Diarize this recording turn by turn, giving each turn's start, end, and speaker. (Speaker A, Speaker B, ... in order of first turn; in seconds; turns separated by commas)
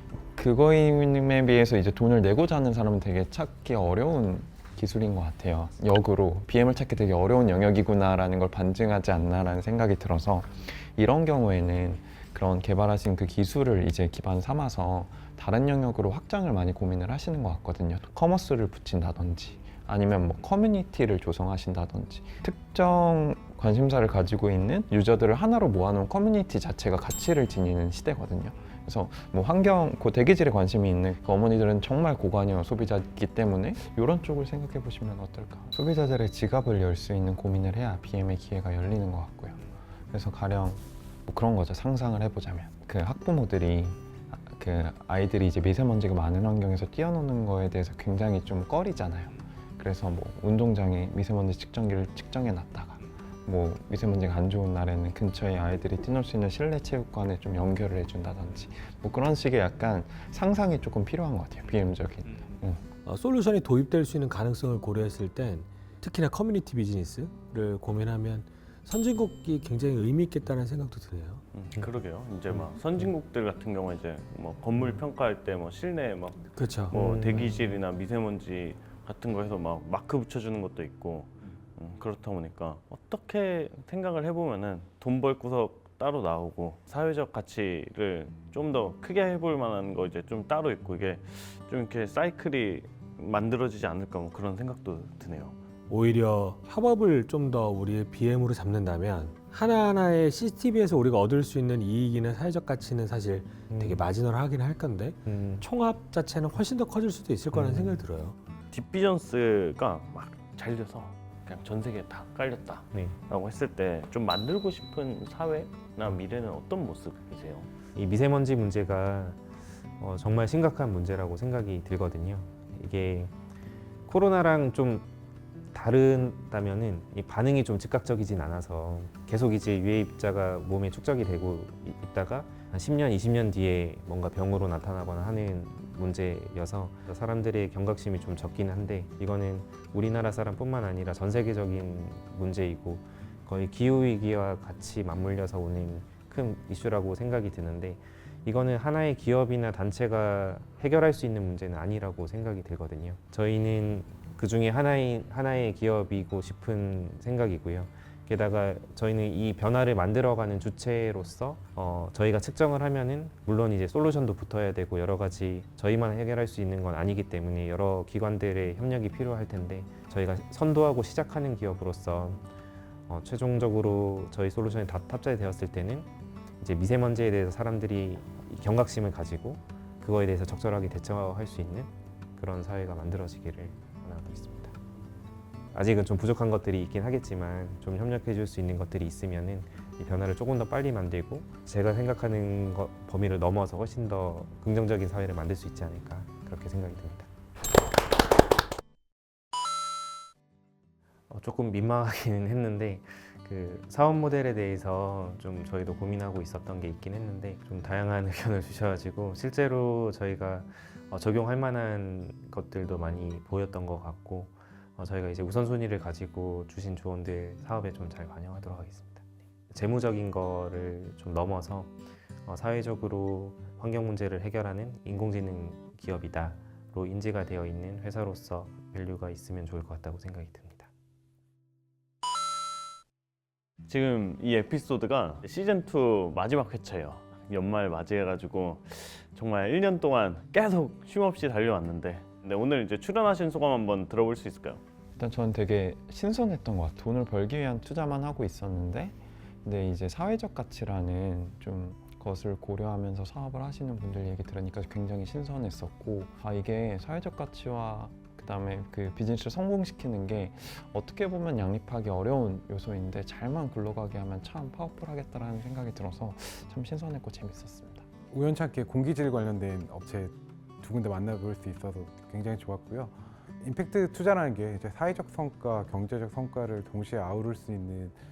Speaker A: 0.3-62.8, Speaker B: 63.0-71.4, Speaker C: 71.5-95.6, Speaker B: 76.6-77.0, Speaker D: 76.9-77.6, Speaker B: 95.9-108.4, Speaker D: 103.7-104.0, Speaker D: 105.2-105.6, Speaker D: 107.5-108.0, Speaker C: 108.7-117.7, Speaker D: 118.0-119.4, Speaker D: 120.0-123.3, Speaker D: 124.1-125.1, Speaker D: 125.7-172.4, Speaker D: 173.1-176.1, Speaker D: 176.6-184.8, Speaker D: 185.7-197.3, Speaker D: 201.3-230.9, Speaker C: 233.9-244.8, Speaker A: 245.2-268.0, Speaker E: 268.3-278.2